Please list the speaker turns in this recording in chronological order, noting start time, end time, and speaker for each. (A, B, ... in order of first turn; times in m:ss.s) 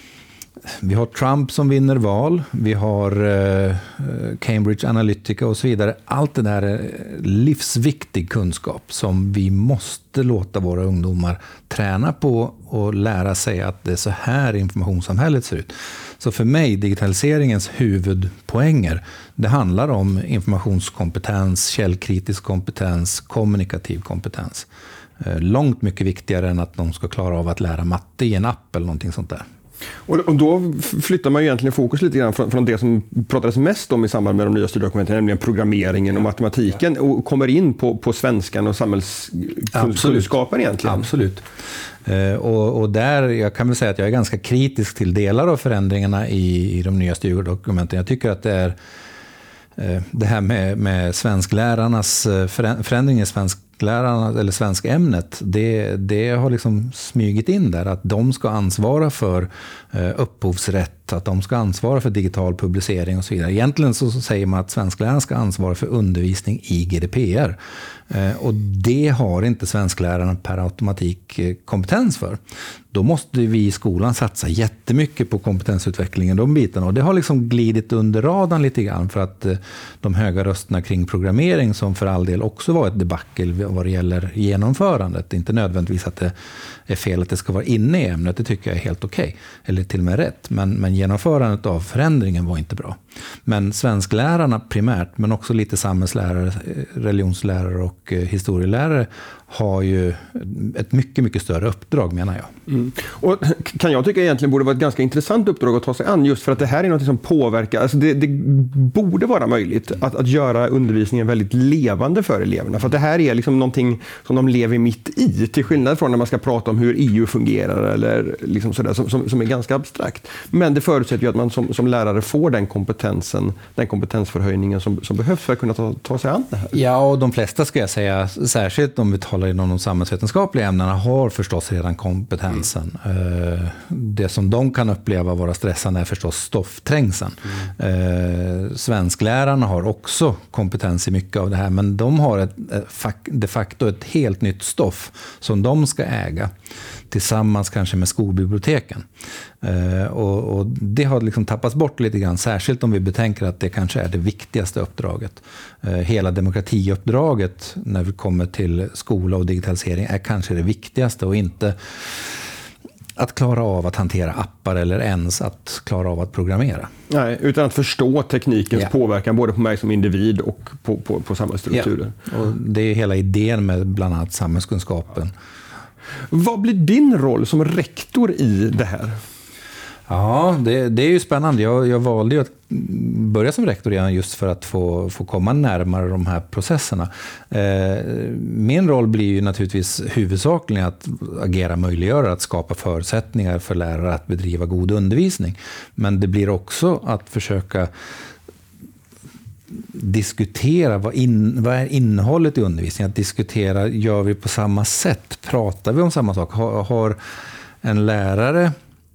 0:00.7-0:24.7 A
0:25.2-0:29.4 A
0:30.1-0:41.1 B
0:39.7-0:40.3 A
0:40.8-0:41.4 A
0:42.0-0:48.8 A
0:49.8-1:07.6 A
1:08.1-1:12.4 A
1:12.9-1:26.3 A
1:26.9-1:42.5 A
1:42.7-2:06.7 B
2:06.7-2:26.5 A
2:27.1-2:29.0 A
2:29.6-2:42.4 A
2:43.2-2:46.9 A
2:47.1-2:52.2 B
2:51.7-2:55.3 A
2:56.3-2:59.2 B
3:00.1-3:17.9 A
3:19.7-3:27.2 A
3:27.8-3:28.7 A